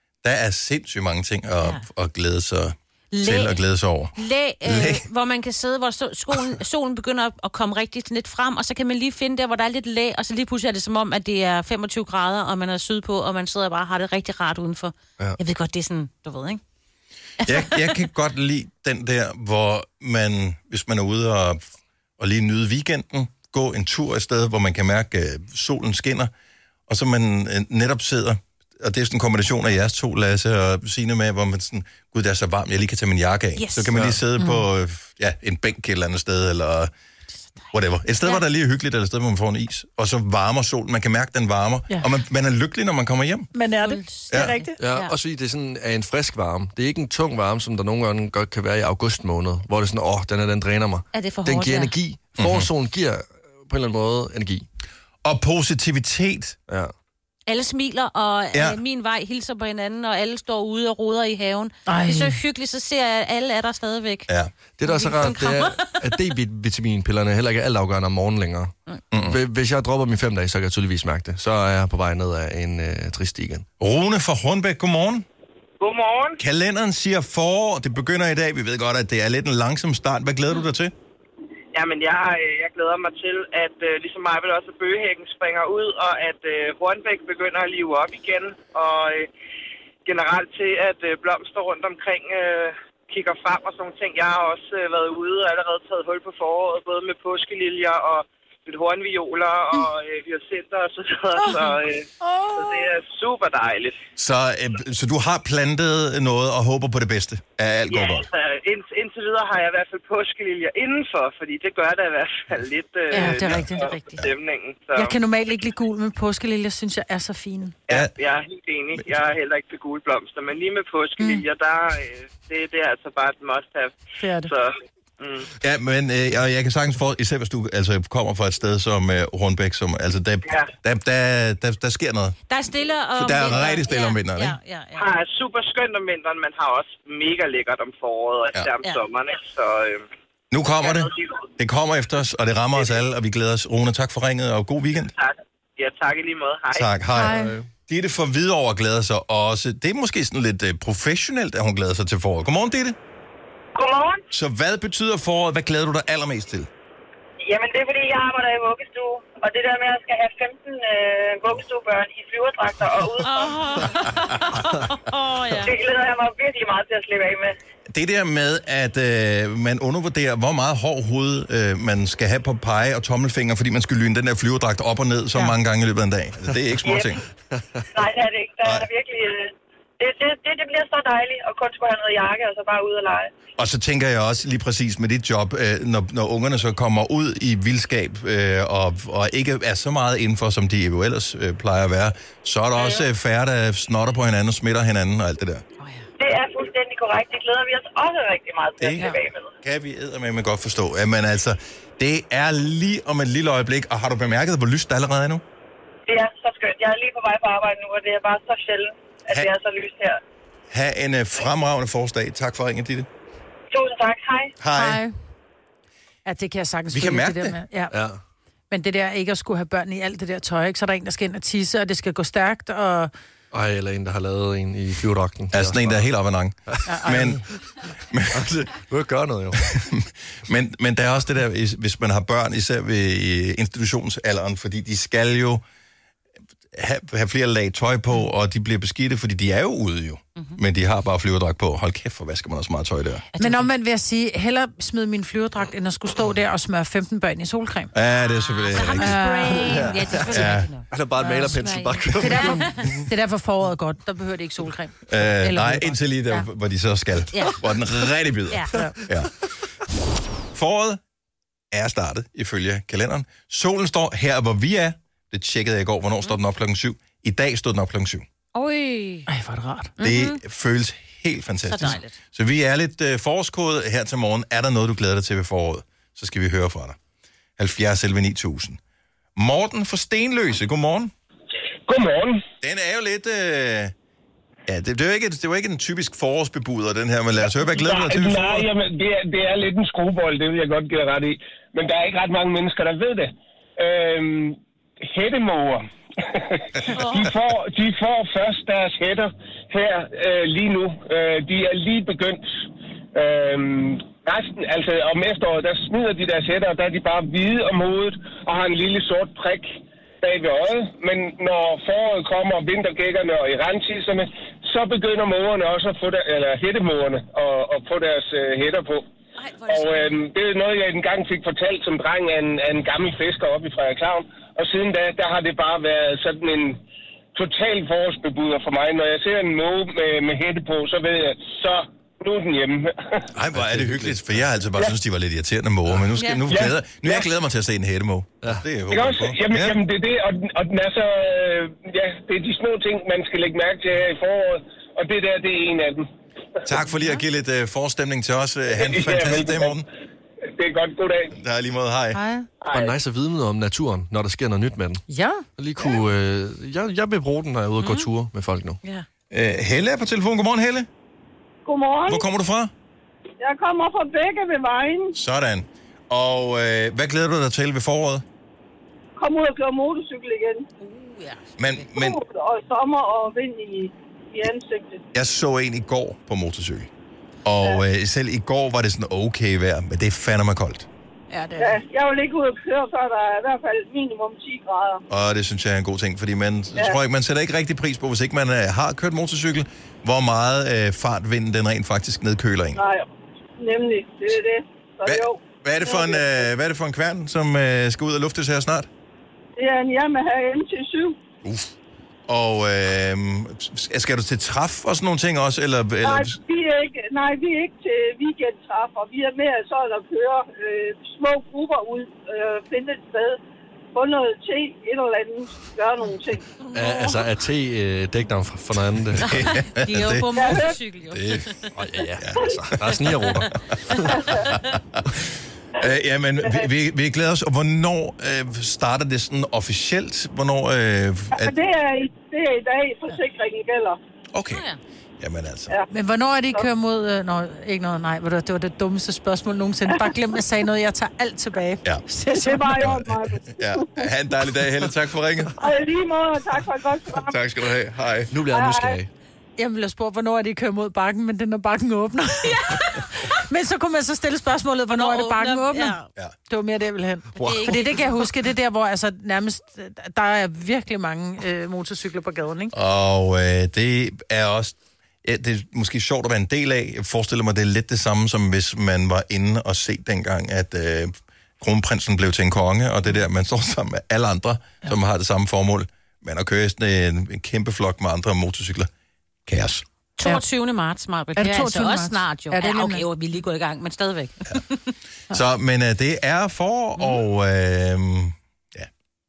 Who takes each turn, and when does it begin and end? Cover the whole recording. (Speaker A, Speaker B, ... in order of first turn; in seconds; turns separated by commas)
Speaker A: 0.2-5.0, Speaker B: 3.1-3.6, Speaker B: 4.2-16.6, Speaker A: 17.4-21.6, Speaker B: 17.4-17.9, Speaker A: 22.2-26.3, Speaker A: 26.9-36.9, Speaker B: 33.6-33.9, Speaker C: 33.9-34.2, Speaker D: 34.4-34.6, Speaker A: 37.7-43.5, Speaker D: 43.5-44.8, Speaker B: 43.8-45.1, Speaker A: 44.3-44.5, Speaker C: 44.8-54.7, Speaker B: 51.1-51.9, Speaker A: 52.4-52.7, Speaker A: 55.2-56.6, Speaker B: 57.5-64.3, Speaker A: 58.5-58.8, Speaker D: 61.9-62.4, Speaker C: 64.8-73.7, Speaker B: 64.8-66.0, Speaker A: 69.1-69.4, Speaker A: 73.8-75.3, Speaker E: 75.8-76.4, Speaker A: 76.4-80.9, Speaker E: 81.7-89.3, Speaker E: 90.0-104.0, Speaker A: 104.2-108.3, Speaker E: 107.9-115.1, Speaker D: 113.1-114.2, Speaker A: 113.2-113.6, Speaker D: 115.0-117.8, Speaker E: 117.9-125.5, Speaker D: 121.2-121.4, Speaker D: 124.2-124.5, Speaker A: 125.6-132.4, Speaker B: 132.5-135.1, Speaker A: 133.2-134.6, Speaker E: 135.0-140.1, Speaker A: 140.5-145.1, Speaker E: 140.8-141.3, Speaker E: 145.2-146.9, Speaker A: 146.7-153.0, Speaker D: 147.1-147.5, Speaker C: 147.3-147.7, Speaker F: 153.8-154.2, Speaker A: 154.3-156.7, Speaker F: 157.4-163.5, Speaker B: 163.2-165.8, Speaker F: 165.6-167.6, Speaker A: 167.9-177.2, Speaker F: 176.8-177.2, Speaker F: 177.9-183.3, Speaker A: 178.6-178.9, Speaker A: 183.6-195.6, Speaker F: 196.2-199.5, Speaker A: 198.8-199.1, Speaker A: 199.6-205.4, Speaker F: 206.1-210.2, Speaker A: 210.7-213.1, Speaker F: 213.7-214.6, Speaker A: 214.6-215.0, Speaker D: 214.8-215.1, Speaker D: 216.3-217.9, Speaker A: 216.9-217.6, Speaker C: 217.9-218.2, Speaker D: 218.7-223.1, Speaker C: 223.5-226.1, Speaker A: 225.5-227.4, Speaker C: 226.7-227.2, Speaker D: 226.9-227.4, Speaker A: 228.1-228.7, Speaker C: 228.3-229.7, Speaker A: 229.6-235.6, Speaker A: 236.7-243.2, Speaker B: 243.3-243.7, Speaker D: 243.4-247.9, Speaker A: 247.9-250.7, Speaker B: 248.2-250.9, Speaker D: 249.0-249.9, Speaker C: 249.7-253.0, Speaker D: 251.2-251.6, Speaker B: 251.4-252.7, Speaker D: 252.1-256.5, Speaker A: 255.1-259.3, Speaker B: 257.3-257.6, Speaker A: 260.5-261.0, Speaker A: 261.7-268.3, Speaker B: 268.6-269.3, Speaker D: 269.3-269.9, Speaker B: 270.0-270.4, Speaker A: 270.0-277.0, Speaker B: 271.7-272.2, Speaker A: 277.6-278.8, Speaker A: 279.4-281.1, Speaker G: 281.9-282.4, Speaker A: 282.6-283.9, Speaker A: 284.7-288.7, Speaker G: 287.7-302.6, Speaker B: 297.0-297.3, Speaker G: 303.1-319.1, Speaker B: 319.4-320.3, Speaker G: 319.7-326.8, Speaker G: 327.3-333.3, Speaker A: 333.3-339.8, Speaker C: 333.5-334.2, Speaker B: 336.2-336.4, Speaker G: 336.5-337.3, Speaker G: 338.9-346.1, Speaker A: 346.6-349.9, Speaker G: 348.7-349.8, Speaker G: 350.5-351.4, Speaker A: 351.4-352.2, Speaker D: 352.1-352.5, Speaker G: 352.6-352.9, Speaker C: 352.7-355.0, Speaker D: 355.1-355.4, Speaker C: 355.6-358.8, Speaker B: 357.8-358.1, Speaker A: 359.3-360.9, Speaker H: 361.6-362.3, Speaker A: 362.1-362.7, Speaker H: 363.4-365.2, Speaker A: 365.1-368.2, Speaker H: 369.2-370.7, Speaker B: 370.8-371.8, Speaker A: 371.6-372.2, Speaker H: 371.9-375.0, Speaker A: 375.1-376.9, Speaker A: 377.4-380.9, Speaker D: 381.3-381.7, Speaker H: 381.6-385.0, Speaker A: 385.1-392.8, Speaker H: 392.8-393.1, Speaker H: 393.6-396.5, Speaker A: 395.1-398.9, Speaker H: 399.6-401.2, Speaker A: 401.4-401.7, Speaker A: 402.3-406.4, Speaker H: 406.0-413.4, Speaker H: 413.9-416.5, Speaker C: 416.7-419.5, Speaker A: 419.2-421.4, Speaker B: 419.3-421.7, Speaker H: 420.3-420.8, Speaker C: 421.8-424.3, Speaker A: 422.2-422.5, Speaker H: 424.1-424.4, Speaker A: 424.1-431.6, Speaker H: 431.3-434.0, Speaker A: 434.3-434.6, Speaker B: 434.5-434.8, Speaker A: 435.2-435.8, Speaker D: 435.9-442.9, Speaker H: 442.4-444.1, Speaker A: 442.8-445.6, Speaker H: 445.6-447.5, Speaker A: 447.1-448.3, Speaker C: 448.3-449.1, Speaker H: 448.5-449.0, Speaker D: 449.6-456.0, Speaker B: 454.9-456.1, Speaker D: 456.5-462.7, Speaker B: 457.4-458.3, Speaker C: 457.4-457.7, Speaker A: 462.7-478.9, Speaker A: 479.5-479.9, Speaker B: 480.2-484.8, Speaker D: 481.4-483.0, Speaker A: 485.3-488.9